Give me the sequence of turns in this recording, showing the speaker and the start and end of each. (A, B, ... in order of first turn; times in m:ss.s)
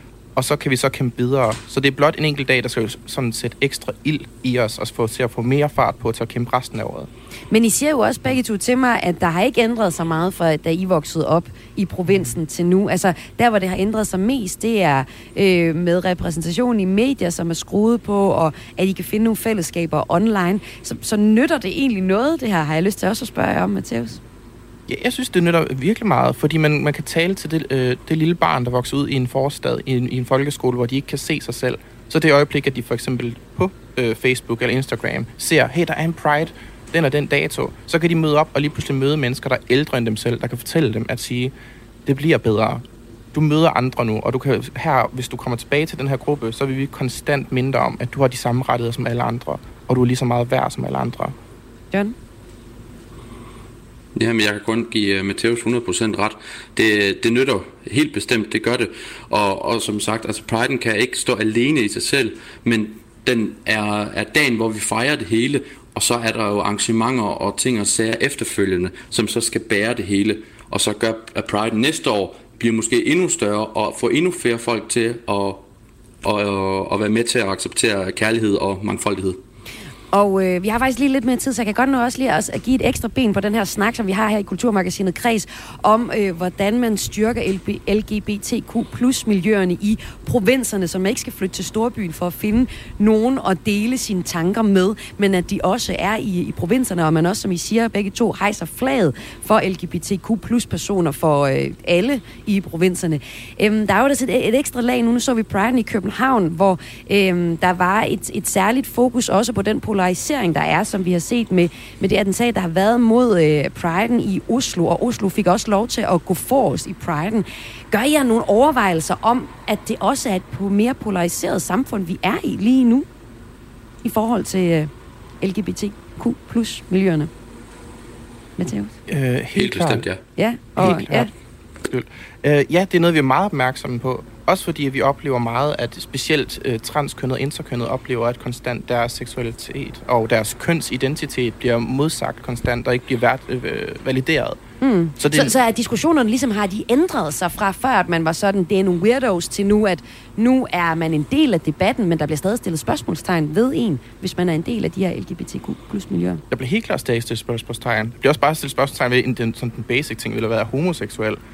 0:00.4-0:07.1 A
0:07.5-0:24.2 B
0:24.9-0:41.5 A
0:42.0-0:51.3 A
0:54.2-1:15.6 C
1:16.2-1:19.4 C
1:20.1-2:03.1 B
2:04.0-2:07.3 B
2:08.6-2:08.9 B
2:09.1-2:10.1 A
2:09.5-2:10.2 C
2:10.4-2:11.3 B
2:10.8-2:11.3 A
2:11.8-2:24.6 A
2:24.8-2:36.4 B
2:25.2-2:25.6 A
2:36.5-2:41.4 A